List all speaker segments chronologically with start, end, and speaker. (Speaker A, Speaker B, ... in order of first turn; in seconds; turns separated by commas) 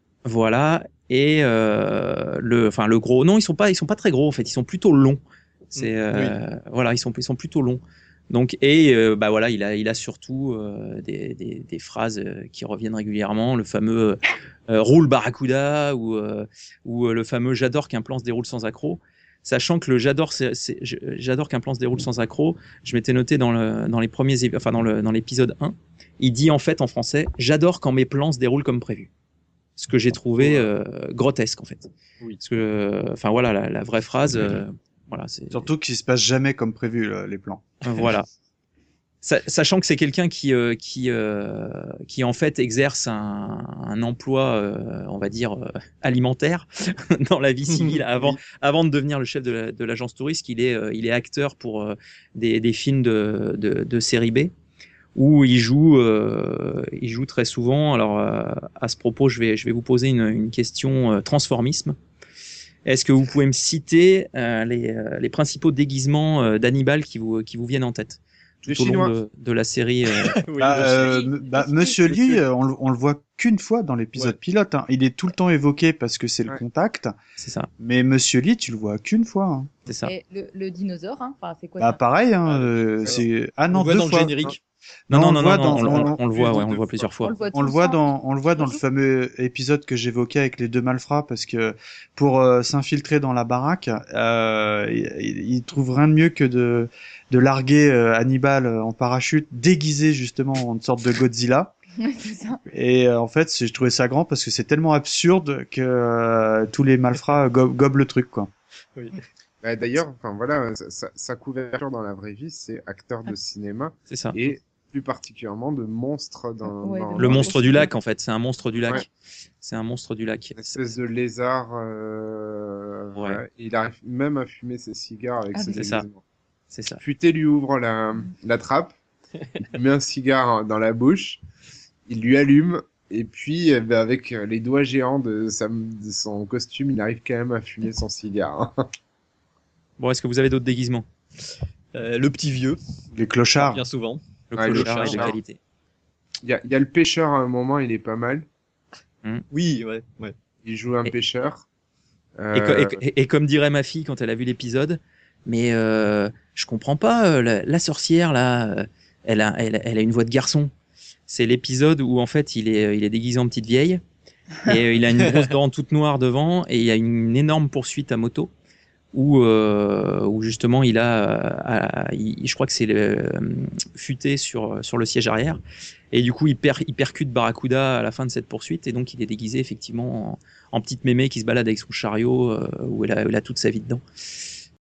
Speaker A: 0.2-29.1, Speaker B: 5.8-6.4, Speaker A: 29.8-31.9, Speaker B: 30.4-30.7, Speaker A: 32.4-35.7, Speaker C: 35.5-37.6, Speaker A: 37.8-38.3, Speaker A: 39.2-54.5, Speaker B: 47.7-48.4, Speaker A: 55.1-62.0, Speaker A: 62.9-70.8, Speaker D: 68.6-69.2, Speaker B: 70.1-71.1, Speaker C: 70.6-77.1, Speaker E: 70.8-72.1, Speaker A: 77.4-77.7, Speaker C: 77.8-79.7, Speaker A: 79.9-80.1, Speaker E: 80.0-82.0, Speaker C: 81.8-84.5, Speaker B: 82.5-84.6, Speaker C: 85.1-86.2, Speaker A: 85.1-87.4, Speaker B: 85.9-86.7, Speaker E: 87.2-88.8, Speaker C: 87.5-101.7, Speaker E: 102.0-102.6, Speaker C: 102.7-108.5, Speaker B: 109.0-109.2, Speaker D: 109.6-117.9, Speaker A: 114.1-114.4, Speaker E: 116.8-117.9, Speaker A: 117.2-119.1, Speaker A: 119.6-120.9, Speaker D: 120.6-126.2, Speaker A: 123.1-123.4, Speaker A: 125.7-126.1, Speaker A: 126.7-127.0, Speaker D: 127.0-128.9, Speaker D: 129.6-131.4, Speaker D: 132.1-138.9, Speaker A: 140.0-141.1, Speaker B: 141.9-142.8, Speaker C: 143.1-143.8, Speaker B: 143.6-145.4, Speaker A: 144.5-145.6, Speaker D: 144.5-145.4, Speaker D: 146.4-148.5, Speaker B: 149.5-150.3, Speaker D: 150.7-151.7, Speaker D: 152.4-153.0, Speaker A: 152.5-160.7, Speaker A: 161.3-164.0, Speaker A: 164.7-168.5, Speaker A: 169.1-175.6, Speaker A: 176.1-184.0